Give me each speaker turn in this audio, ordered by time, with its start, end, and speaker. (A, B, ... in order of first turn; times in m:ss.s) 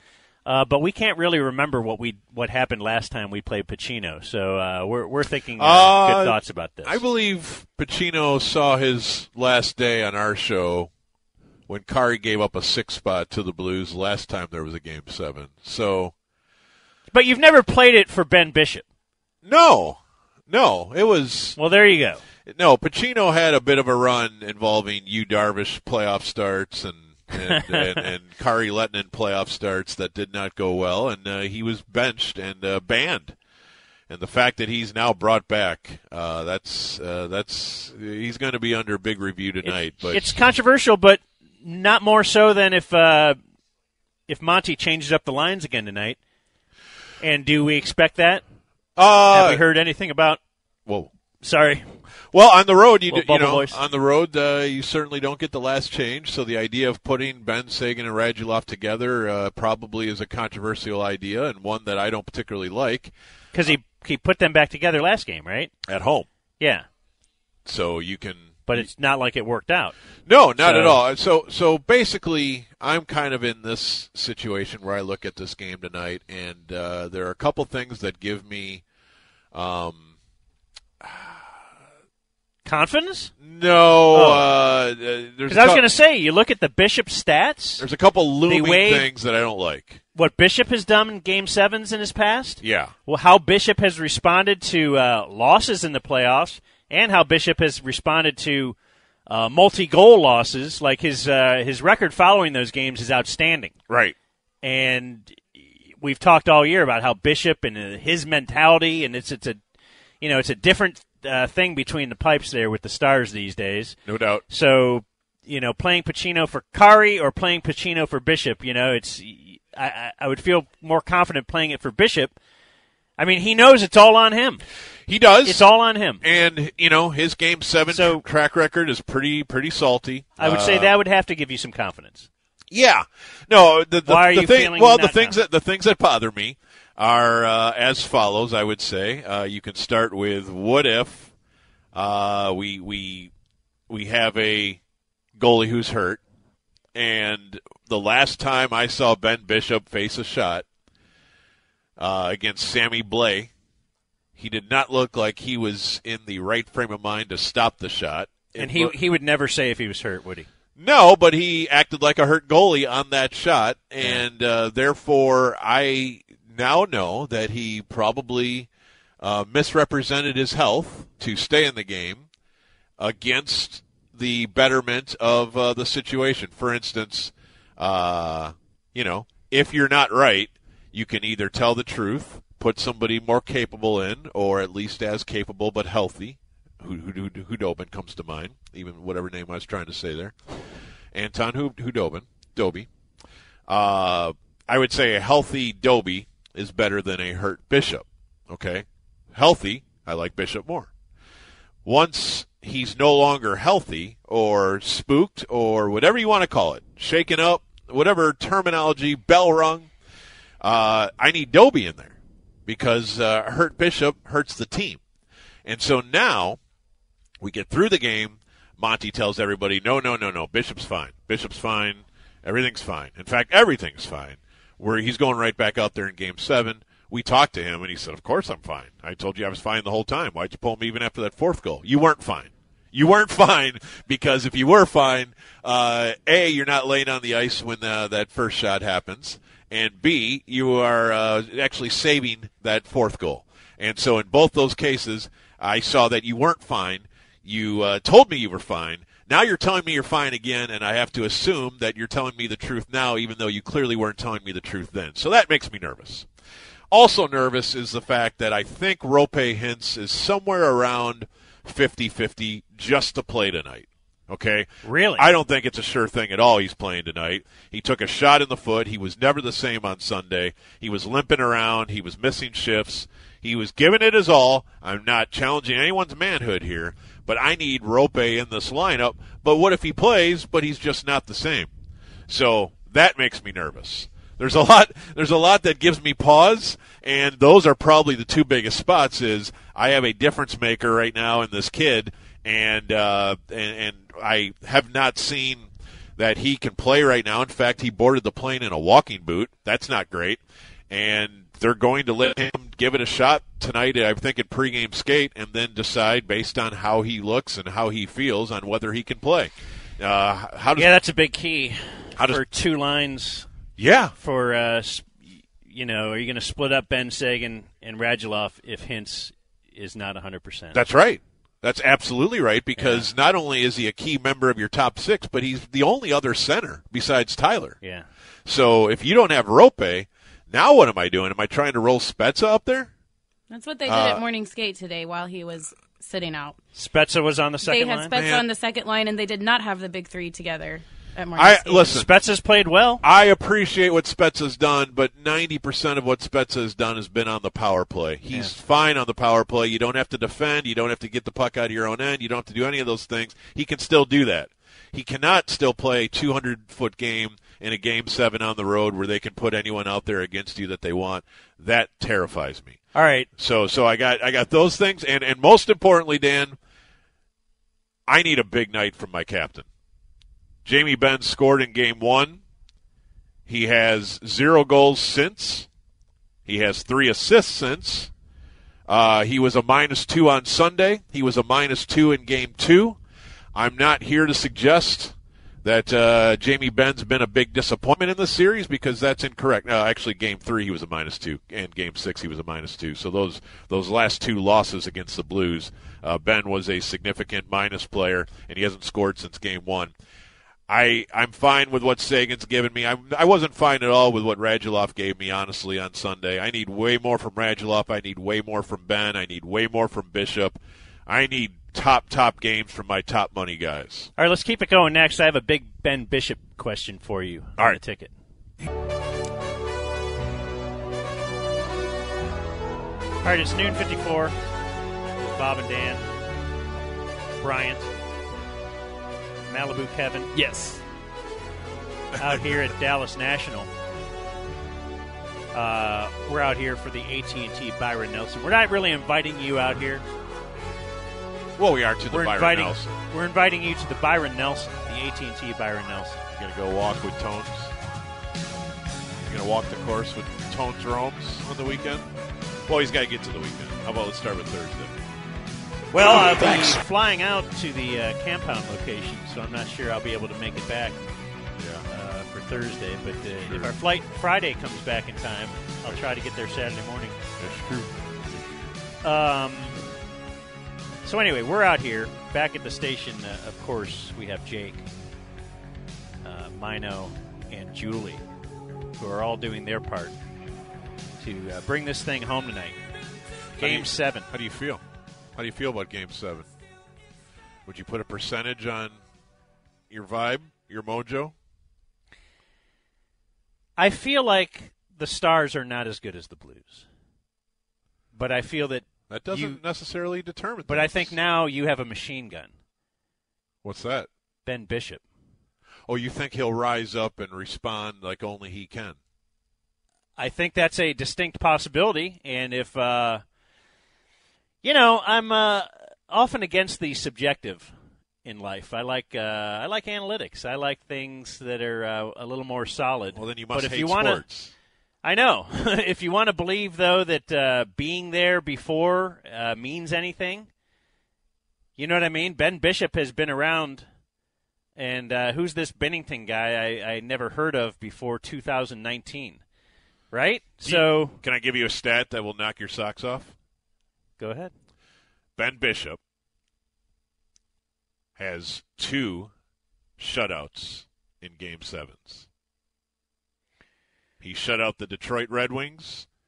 0:00.4-0:07.0 A
0:05.6-0:10.9 B
0:11.7-0:16.1 B
0:17.1-0:18.8 A
0:19.4-0:20.0 B
0:20.5-0:21.6 B
0:21.6-0:22.2 A
0:22.5-0:33.4 B
0:27.4-0:28.1 A
0:34.1-0:40.4 B
0:39.6-0:43.4 A
0:44.3-0:46.2 A
0:47.2-0:48.4 A
0:49.0-0:49.6 B
0:49.3-0:50.4 A
0:51.4-0:51.8 A
0:52.3-1:03.1 B
0:53.1-0:53.8 A
1:03.5-1:05.7 A
1:05.9-1:06.3 B
1:06.6-1:06.8 A
1:07.7-1:08.9 B
1:08.7-1:09.9 A
1:10.3-1:18.8 B
1:10.6-1:11.0 A
1:19.5-1:20.1 B
1:21.0-1:21.5 B
1:22.6-1:23.3 A
1:23.4-1:25.8 B
1:24.1-1:24.5 A
1:25.5-1:27.8 A
1:27.8-1:30.0 B
1:28.5-1:29.1 A
1:30.2-1:38.8 A
1:32.6-1:32.9 B
1:39.3-1:43.7 A
1:43.9-1:44.2 B
1:44.6-1:49.6 A
1:50.2-1:54.0 A
1:54.1-1:54.4 B
1:54.5-2:02.4 A
2:03.2-2:04.6 A
2:05.1-2:05.6 B
2:05.4-2:06.2 A
2:06.2-2:10.9 B
2:07.9-2:08.2 A
2:10.4-2:12.3 A
2:12.7-2:21.3 B
2:14.1-2:15.4 A
2:21.9-2:23.3 B
2:23.9-2:24.8 B
2:25.4-2:26.2 B
2:27.0-2:30.7 B
2:32.0-2:33.5 B
2:34.4-2:39.0 B
2:38.6-2:40.5 A
2:40.8-2:48.7 B
2:49.2-2:52.3 B
2:53.0-3:10.4 B
3:11.1-3:12.9 B
3:13.7-3:20.9 B
3:21.8-3:29.9 B
3:30.6-3:32.2 B
3:32.7-3:35.0 B
3:35.6-3:36.6 B
3:37.4-4:16.3 B
4:16.9-4:41.7 B
4:24.8-4:25.3 A
4:42.3-5:10.9 B
5:10.8-5:13.5 A
5:13.8-5:14.2 B
5:14.2-5:15.1 A
5:15.6-5:20.8 A
5:20.7-5:27.8 B
5:22.8-5:23.1 A
5:27.8-5:28.1 A
5:28.5-5:32.9 B
5:33.5-5:36.6 C
5:33.9-5:34.2 B
5:36.8-5:38.2 A
5:37.6-5:41.9 C
5:38.1-5:38.5 B
5:41.4-5:42.1 B
5:41.7-5:43.0 A
5:43.0-6:02.8 B
6:03.0-6:03.3 A
6:03.4-6:06.6 B
6:08.1-6:09.7 B
6:10.6-6:12.4 B
6:13.5-6:15.7 B
6:16.5-6:18.1 B
6:18.9-6:23.0 B
6:23.6-6:39.9 B
6:40.7-6:54.1 B
6:54.2-6:58.1 A
7:03.2-7:04.4 A
7:05.2-7:06.0 A
7:07.4-7:07.9 A
7:09.5-7:10.8 A
7:12.2-7:13.7 A
7:15.5-7:20.0 A
7:21.6-7:22.9 B
7:22.1-7:26.2 A
7:26.4-7:27.7 B
7:29.3-7:32.0 B
7:32.7-7:34.9 B
7:35.9-7:41.0 A
7:36.0-7:36.8 B
7:41.6-7:41.9 B
7:41.9-7:47.2 A
7:43.4-7:43.8 B
7:47.4-7:47.9 B
7:49.0-7:49.8 A
7:51.0-7:54.8 A
7:56.2-7:58.2 A
7:59.0-8:00.2 A
8:01.2-8:02.8 A
8:03.6-8:04.8 B
8:03.6-8:04.3 A
8:05.4-8:06.5 B
8:07.7-8:09.0 B
8:09.9-8:11.3 B
8:13.8-8:16.9 A
8:18.1-8:19.6 A
8:19.1-8:21.1 B
8:20.7-8:22.5 A
8:23.6-8:24.1 B
8:24.4-8:25.0 A
8:25.9-8:29.0 B
8:30.2-8:33.2 A
8:34.6-8:37.7 A
8:38.2-8:44.2 A
8:43.1-8:44.5 B
8:45.0-8:50.5 A
8:51.8-8:53.8 A
8:54.8-8:59.4 A
9:00.1-9:01.2 A
9:00.6-9:03.3 B
9:04.2-9:04.5 A
9:05.4-9:06.0 B
9:08.2-9:09.3 B
9:10.0-9:12.3 B
9:14.2-9:16.1 B